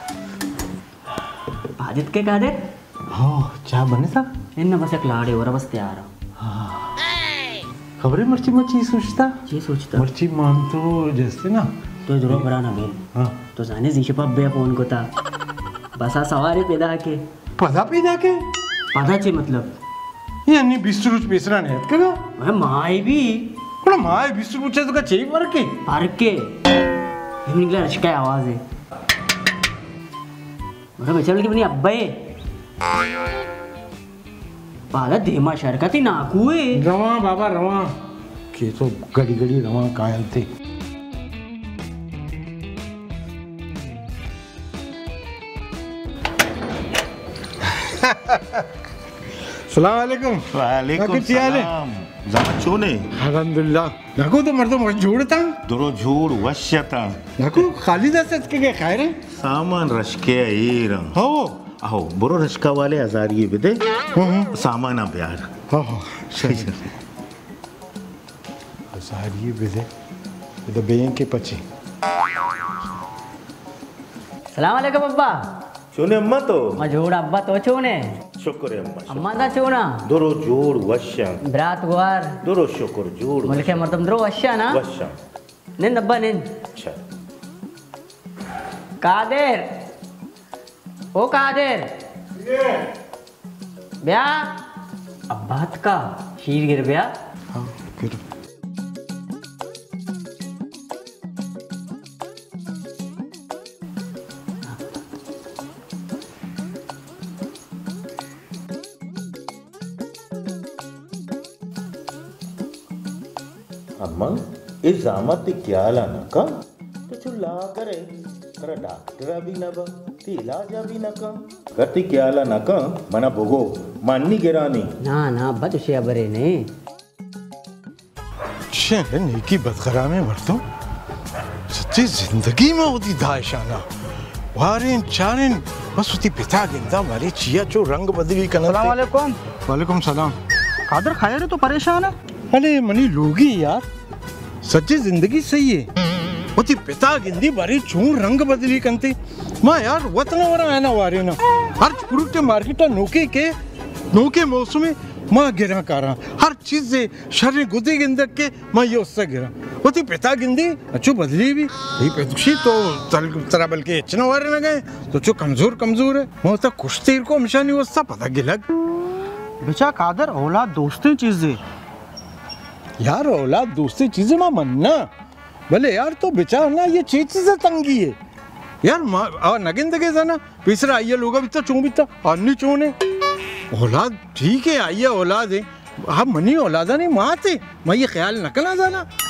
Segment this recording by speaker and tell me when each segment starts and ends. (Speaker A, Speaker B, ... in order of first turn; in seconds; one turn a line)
Speaker A: 1.8-2.6
Speaker B: 3.1-4.3
Speaker A: 4.5-6.1
Speaker B: 6.4-6.9
Speaker B: 8.0-9.4
Speaker A: 9.5-10.1
Speaker B: 9.9-11.7
Speaker A: 12.1-13.0
Speaker A: 13.5-15.1
Speaker A: 15.9-17.2
Speaker B: 17.6-18.4
Speaker A: 18.9-19.7
Speaker B: 20.4-22.2
Speaker A: 22.4-23.5
Speaker B: 23.8-25.7
Speaker A: 25.9-26.6
Speaker A: 27.4-28.6
Speaker A: 31.0-32.3
Speaker A: 34.9-36.8
Speaker B: 36.7-37.9
Speaker B: 38.5-40.5
Speaker B: 47.7-48.6
Speaker B: 49.7-51.7
Speaker C: 50.5-53.1
Speaker B: 53.2-55.6
Speaker C: 55.6-57.3
Speaker B: 57.4-59.2
Speaker C: 59.3-64.0
Speaker B: 61.1-61.6
Speaker B: 64.1-64.5
Speaker C: 64.5-65.6
Speaker B: 65.7-66.8
Speaker C: 66.4-66.8
Speaker B: 68.9-69.9
Speaker B: 70.7-71.6
Speaker A: 74.5-75.4
Speaker C: 75.9-76.8
Speaker A: 76.8-78.1
Speaker C: 78.4-79.3
Speaker A: 79.1-80.0
Speaker C: 80.0-81.4
Speaker A: 81.4-82.4
Speaker C: 82.4-83.8
Speaker A: 83.5-84.8
Speaker C: 84.7-85.1
Speaker A: 85.8-86.5
Speaker A: 89.0-89.7
Speaker A: 91.1-91.9
Speaker B: 92.4-92.8
Speaker A: 94.0-94.5
Speaker A: 95.3-97.1
Speaker B: 97.5-98.2
Speaker C: 114.0-116.5
Speaker C: 117.1-124.9
Speaker A: 125.0-126.7
Speaker B: 128.7-130.6
Speaker B: 131.7-133.8
Speaker B: 134.5-138.9
Speaker D: 138.7-139.3
Speaker B: 139.7-140.3
Speaker D: 140.9-142.1
Speaker B: 142.5-143.8
Speaker B: 144.6-145.9
Speaker B: 146.6-153.5
Speaker B: 154.1-168.6
Speaker D: 169.6-171.6
Speaker B: 173.0-175.0
Speaker B: 175.7-178.2
Speaker B: 178.8-182.9
Speaker B: 183.7-189.1